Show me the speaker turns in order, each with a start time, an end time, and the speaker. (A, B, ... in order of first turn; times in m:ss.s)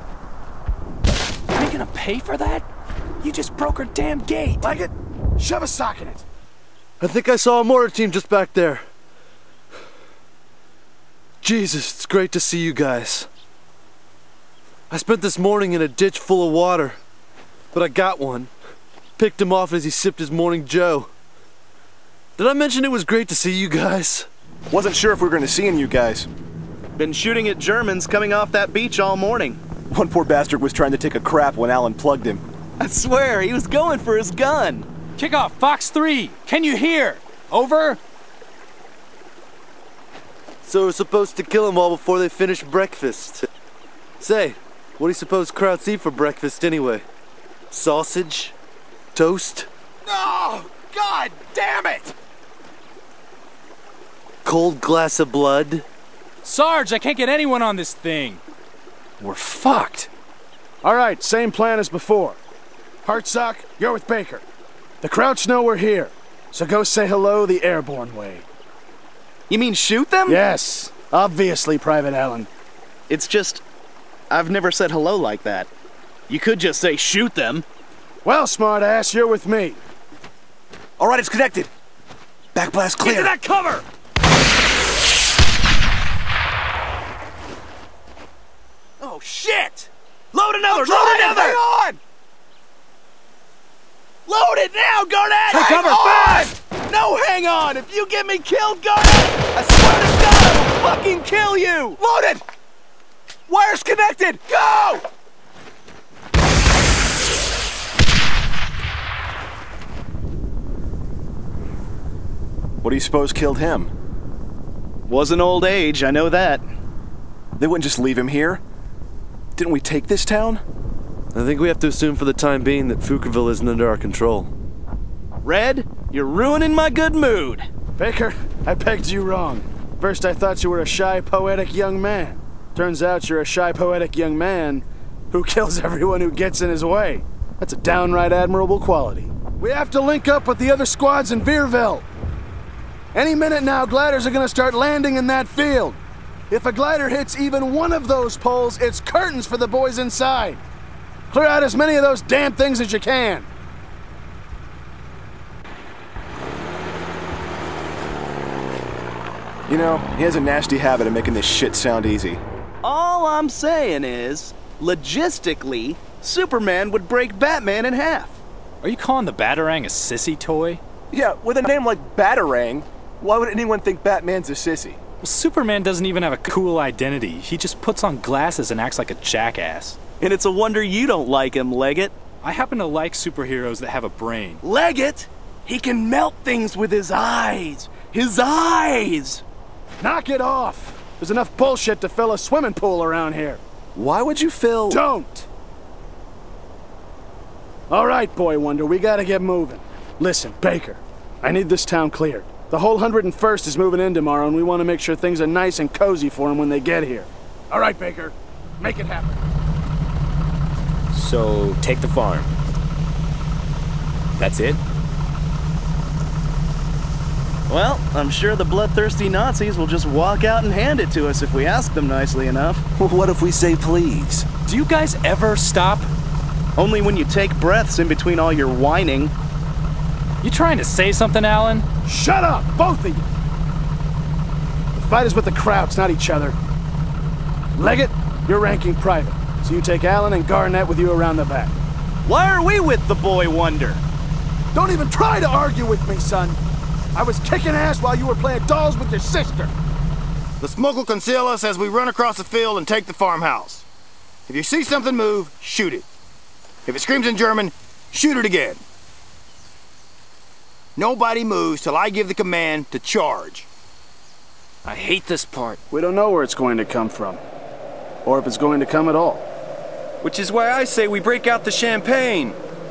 0:01.5-0:02.6 A
0:03.2-0:04.7 A
0:04.6-0:06.2 B
0:07.0-0:08.8 C
0:11.4-0:13.3 C
0:14.9-0:17.0 C
0:17.7-0:18.5 C
0:19.2-0:21.1 C
0:22.4-0:24.3 C
0:24.7-0:26.3 D
0:27.0-0:29.6 E
0:29.9-0:32.4 D
0:32.8-0:34.9 E
0:35.2-0:38.0 A
0:40.6-0:43.5 C
0:44.2-0:47.0 C
0:47.7-0:48.6 C
0:49.2-0:49.7 C
0:51.5-0:52.0 A
0:54.4-0:55.8 C
0:56.4-0:58.4 A
0:59.2-1:00.1 A
1:00.8-1:02.4 B
1:03.0-1:04.4 B
1:05.0-1:08.5 B
1:09.5-1:10.4 E
1:10.3-1:12.5 B
1:13.1-1:13.6 E
1:14.3-1:15.7 E
1:16.3-1:17.6 E
1:18.2-1:19.8 B
1:21.0-1:21.7 D
1:22.6-1:23.4 D
1:23.0-1:23.8 A
1:29.0-1:31.2 E
1:30.7-1:32.0 D
1:31.2-1:31.5 A
1:34.3-1:42.1 E
1:35.5-1:36.5 A
1:43.8-1:45.0 E
1:52.8-1:53.9 D
1:55.1-1:56.6 E
1:57.6-1:58.6 D
1:59.6-2:00.6 D
2:01.3-2:04.5 C
2:05.4-2:07.7 E
2:08.0-2:22.1 B
2:23.1-2:26.0 B
2:26.5-2:30.6 B
2:31.3-2:33.5 B
2:39.7-2:42.4 D
2:42.8-2:48.4 E
2:48.8-2:50.8 A
2:51.1-2:55.0 D
2:55.2-3:00.0 A
3:00.2-3:02.2 E
3:02.4-3:04.6 A
3:04.6-3:09.4 E
3:10.0-3:13.6 B
3:14.0-3:15.0 D
3:14.9-3:15.5 B
3:17.9-3:29.4 B
3:31.1-3:32.5 F
3:34.4-3:34.8 F
3:37.7-3:42.8 E
3:43.0-3:44.5 D
3:44.7-3:46.1 A
3:46.8-3:49.3 E
3:50.4-3:51.8 A
3:52.1-3:53.3 B
3:55.0-3:56.6 B
3:57.8-4:01.8 B
4:02.2-4:04.0 E
4:04.7-4:06.6 B
4:07.2-4:09.7 B
4:10.6-4:13.9 G
4:14.5-4:16.1 G
4:16.9-4:18.8 G
4:21.0-4:23.7 G
4:24.9-4:25.8 F
4:25.9-4:27.4 B
4:28.2-4:29.4 B
4:30.2-4:32.5 D